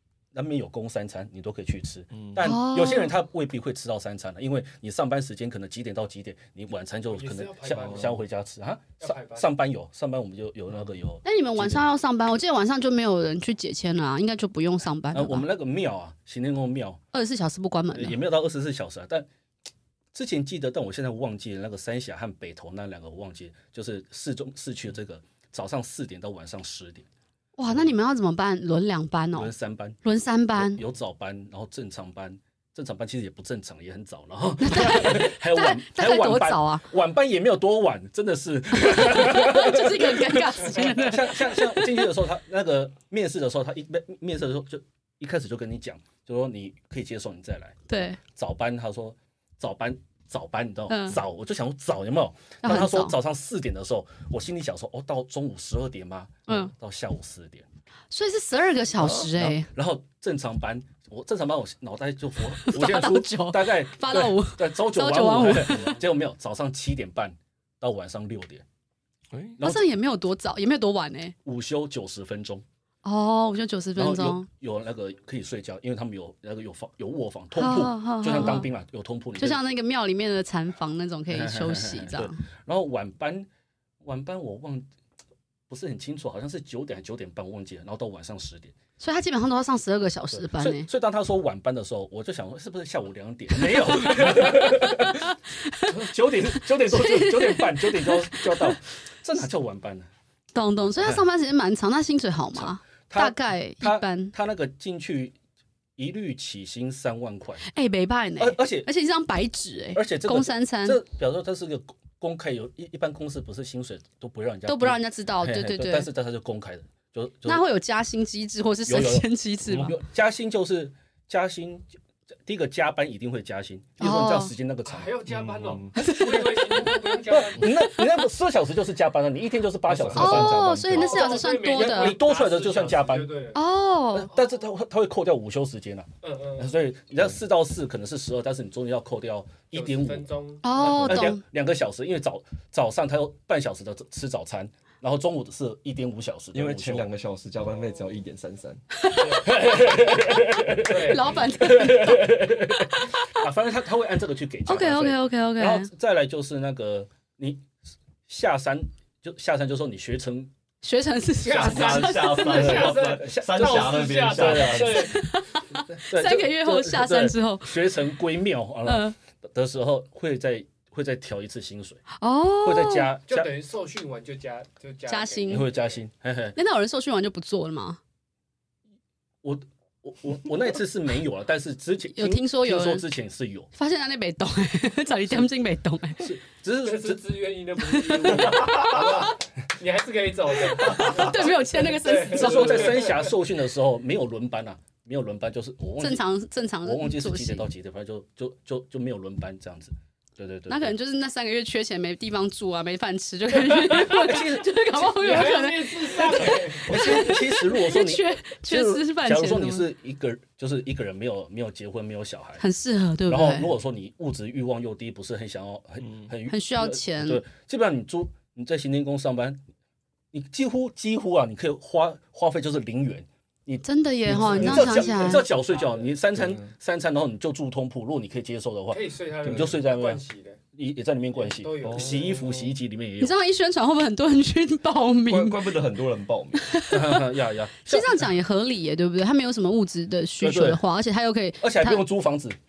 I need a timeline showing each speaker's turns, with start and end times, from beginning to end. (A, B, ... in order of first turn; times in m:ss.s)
0:00.3-0:11.8 A
0:02.4-0:03.1 B
0:07.1-0:08.2 C
0:09.0-0:09.5 C
0:11.2-0:15.4 B
0:15.1-0:17.0 A
0:17.1-0:18.2 B
0:17.9-0:19.3 A
0:20.1-0:27.1 A
0:27.6-0:29.5 B
0:29.4-0:30.0 A
0:30.0-0:30.8 B
0:30.5-0:57.7 A
0:34.6-0:36.8 B
0:38.8-0:42.1 B
0:47.9-0:48.2 B
0:50.9-0:51.2 B
0:52.6-0:53.1 B
0:58.1-0:59.7 B
0:59.1-1:08.6 A
1:02.6-1:06.0 B
1:09.3-1:09.6 D
1:09.6-1:09.9 A
1:09.6-1:11.4 B
1:11.4-1:12.6 A
1:13.0-1:14.5 B
1:14.0-1:19.6 A
1:17.6-1:18.7 B
1:19.4-1:22.4 B
1:21.3-1:23.5 A
1:24.0-1:24.9 A
1:25.7-1:28.7 A
1:29.0-1:30.9 B
1:30.3-1:35.3 A
1:34.0-1:35.9 B
1:35.8-1:40.1 A
1:36.8-1:38.8 B
1:40.6-1:44.3 B
1:41.0-1:41.2 A
1:42.6-1:45.4 A
1:46.0-1:47.6 A
1:47.7-1:51.0 B
1:48.4-1:48.9 A
1:50.0-1:57.6 A
1:54.7-1:56.1 B
1:57.5-2:00.0 B
1:58.9-2:01.9 A
2:02.4-2:05.2 A
2:04.0-2:04.5 B
2:04.8-2:07.8 C
2:05.3-2:05.9 D
2:06.0-2:08.0 B
2:07.3-2:13.3 A
2:09.9-2:10.5 D
2:10.1-2:12.2 B
2:10.9-2:13.6 C
2:13.5-2:14.3 B
2:14.1-2:27.1 A
2:16.2-2:16.7 C
2:19.7-2:20.9 C
2:20.6-2:21.4 B
2:20.9-2:21.2 D
2:26.5-2:28.8 D
2:27.7-2:28.1 C
2:28.9-2:33.3 B
2:29.2-2:29.6 C
2:29.4-2:37.7 A
2:30.8-2:31.5 C
2:34.7-2:35.9 B
2:38.3-2:40.5 A
2:40.8-2:42.9 B
2:41.4-2:45.2 C
2:41.5-2:45.1 D
2:42.5-2:45.1 A
2:44.9-2:47.8 B
2:45.9-2:52.0 A
2:48.8-2:49.2 B
2:52.2-2:53.1 B
2:52.6-2:53.5 A
2:53.3-2:56.0 C
2:55.1-2:55.7 B
2:55.5-2:56.6 A
2:56.6-2:58.0 B
2:59.4-3:03.7 A
3:02.1-3:03.1 B
3:03.7-3:06.3 B
3:06.2-3:07.2 A
3:06.8-3:13.3 C
3:07.9-3:09.3 B
3:08.6-3:08.9 A
3:10.9-3:13.0 B
3:11.0-3:11.3 A
3:12.3-3:16.2 A
3:16.0-3:17.7 B
3:16.8-3:20.9 A
3:20.7-3:29.9 B
3:24.0-3:25.6 A
3:25.1-3:27.2 C
3:26.8-3:32.6 A
3:32.6-3:33.7 B
3:33.3-3:39.6 A
3:36.5-3:37.4 B
3:40.3-3:50.2 A
3:43.8-3:45.4 B
3:44.3-3:46.1 C
3:44.3-3:44.8 D
3:46.4-3:46.7 D
3:48.9-3:50.6 C
3:49.4-3:49.7 D
3:50.7-3:53.4 A
3:51.4-3:52.8 C
3:51.8-3:52.3 D
3:53.2-3:55.7 B
3:55.3-3:56.8 D
3:56.6-3:57.2 B
3:56.9-3:58.3 A
3:57.8-4:02.0 B
4:00.4-4:00.8 A
4:01.6-4:02.6 A